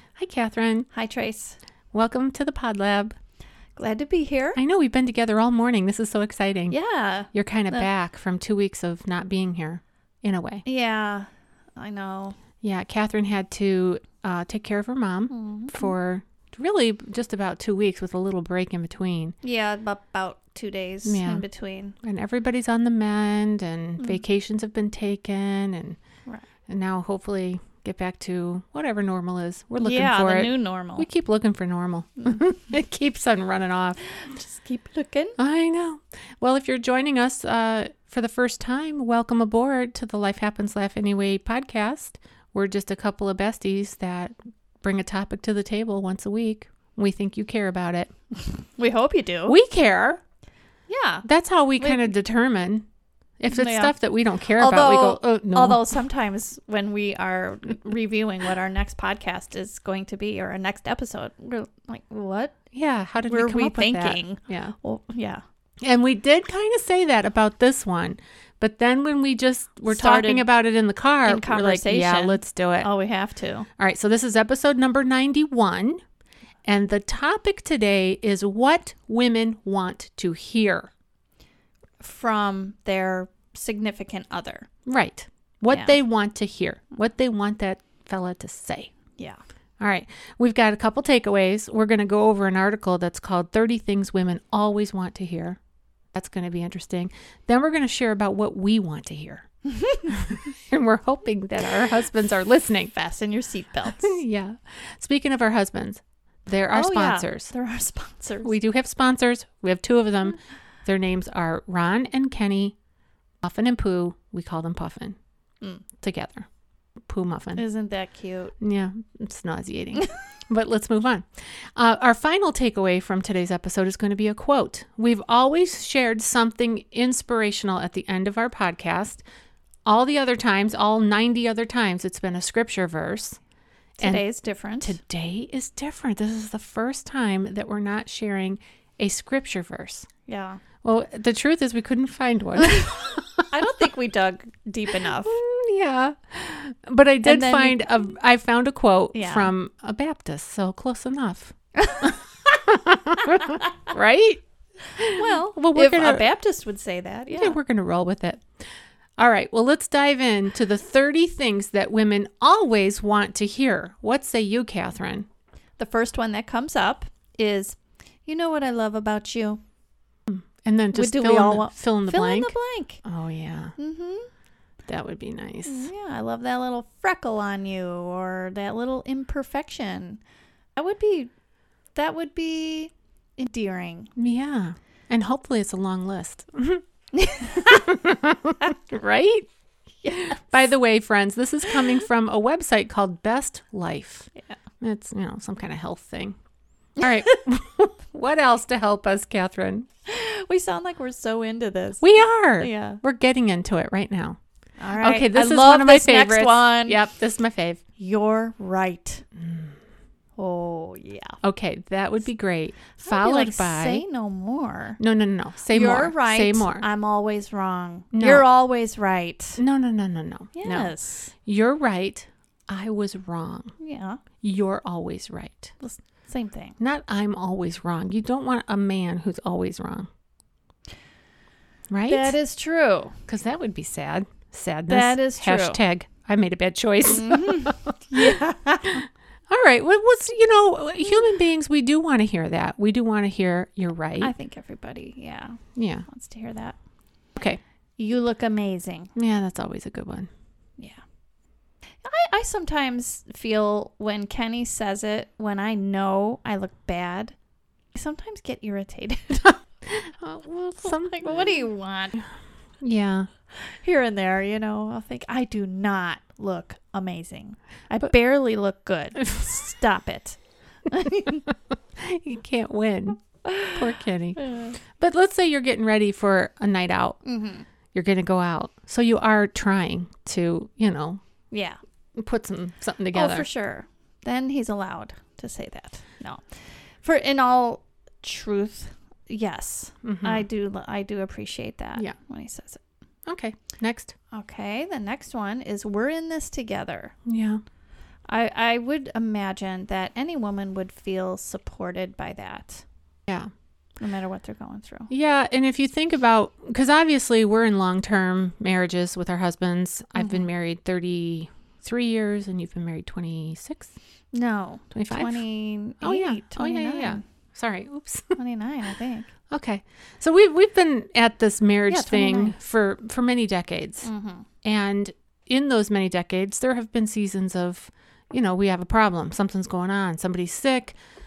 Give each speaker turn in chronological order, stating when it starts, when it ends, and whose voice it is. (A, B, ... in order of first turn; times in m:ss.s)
0:00.2-0:00.9 A
0:00.9-0:01.6 B
0:01.9-0:03.2 A
0:03.8-0:04.6 B
0:04.6-0:06.8 A
0:06.7-0:07.9 B
0:07.3-0:10.6 A
0:10.6-0:12.4 B
0:12.6-0:19.4 A
0:15.3-0:15.9 B
0:19.4-0:22.0 B
0:21.0-0:21.4 A
0:22.0-0:26.0 A
0:26.7-0:34.0 A
0:29.8-0:31.1 B
0:34.1-0:35.4 B
0:35.4-0:48.1 A
0:48.6-0:49.6 B
0:49.5-0:50.2 A
0:50.9-0:51.3 B
0:51.2-0:52.9 A
0:51.8-0:52.1 B
0:53.4-0:55.8 A
0:53.5-0:53.9 B
0:54.6-1:02.5 B
1:02.7-1:04.7 A
1:03.3-1:05.4 B
1:05.8-1:12.9 A
1:09.9-1:10.5 B
1:11.3-1:13.7 B
1:13.8-1:16.0 A
1:16.7-1:20.9 A
1:22.0-1:24.7 B
1:24.9-1:28.9 A
1:29.8-1:35.6 A
1:36.1-1:39.5 A
1:39.6-1:40.3 B
1:40.1-1:42.9 A
1:42.9-1:44.2 B
1:44.0-1:47.5 A
1:46.7-1:48.6 B
1:48.4-1:52.8 A
1:53.4-1:55.2 A
1:56.0-1:56.5 A
1:57.1-1:57.6 A
1:57.6-1:58.5 B
1:58.6-2:09.2 A
2:09.8-2:13.4 A
2:14.0-2:15.0 B
2:14.0-2:14.2 A
2:14.8-2:20.1 A
2:20.3-2:20.6 B
2:20.8-2:23.5 A
2:23.5-2:25.4 B
2:25.1-2:34.4 A
2:27.2-2:27.8 B
2:29.2-2:29.5 B
2:35.0-2:36.3 A
2:35.1-2:37.6 B
2:37.3-2:38.5 A
2:39.2-2:45.3 A
2:45.8-2:49.6 B
2:50.3-2:53.8 A
2:50.9-2:53.0 B
2:53.8-2:54.3 B
2:54.9-2:55.9 A
2:55.6-3:00.2 B
3:00.8-3:01.3 B
3:02.0-3:04.1 B
3:04.2-3:06.8 A
3:07.1-3:07.8 B
3:07.4-3:09.5 A
3:10.1-3:14.3 A
3:14.8-3:16.4 A
3:17.0-3:19.9 A
3:20.1-3:23.0 B
3:22.0-3:24.4 A
3:24.8-3:27.0 B
3:25.0-3:27.8 A
3:28.0-3:29.2 B
3:29.4-3:29.7 A
3:30.4-3:31.4 B
3:31.4-3:34.0 A
3:33.0-3:35.0 B
3:35.0-3:36.8 A
3:35.7-3:39.6 B
3:38.1-3:38.5 A
3:39.6-3:40.9 A
3:40.6-3:41.3 B
3:41.4-3:43.7 A
3:43.8-3:44.2 B
3:44.4-3:45.7 A
3:45.8-3:46.8 B
3:46.8-3:50.1 A
3:51.9-3:52.4 A
3:52.1-3:53.2 B
3:53.3-4:04.3 A
3:54.9-3:55.8 B
3:57.1-3:59.0 B
4:04.2-4:06.8 B
4:05.8-4:06.1 A
4:08.0-4:09.1 B
4:09.2-4:10.3 A
4:12.0-4:17.4 B
4:17.9-4:19.6 B
4:19.8-4:21.7 A
4:20.8-4:22.2 B
4:22.8-4:23.3 A
4:23.6-4:31.5 B
4:31.5-4:37.2 A
4:33.4-4:33.8 B
4:34.4-4:34.8 B
4:37.2-4:37.7 B
4:37.9-4:41.2 A
4:41.5-4:41.8 B
4:42.2-4:43.5 A
4:43.1-4:52.8 B
4:50.0-4:50.4 A
4:53.3-4:54.2 A
4:54.3-4:57.2 B
4:57.2-4:57.6 A
4:58.3-5:02.8 B
5:04.0-5:05.1 B
5:05.1-5:13.9 A
5:10.2-5:10.4 B
5:14.3-5:17.2 B
5:14.9-5:15.4 A
5:16.0-5:18.4 A
5:18.4-5:19.3 B
5:19.5-5:24.1 A
5:21.9-5:22.6 B
5:24.0-5:24.5 B
5:24.6-5:31.0 A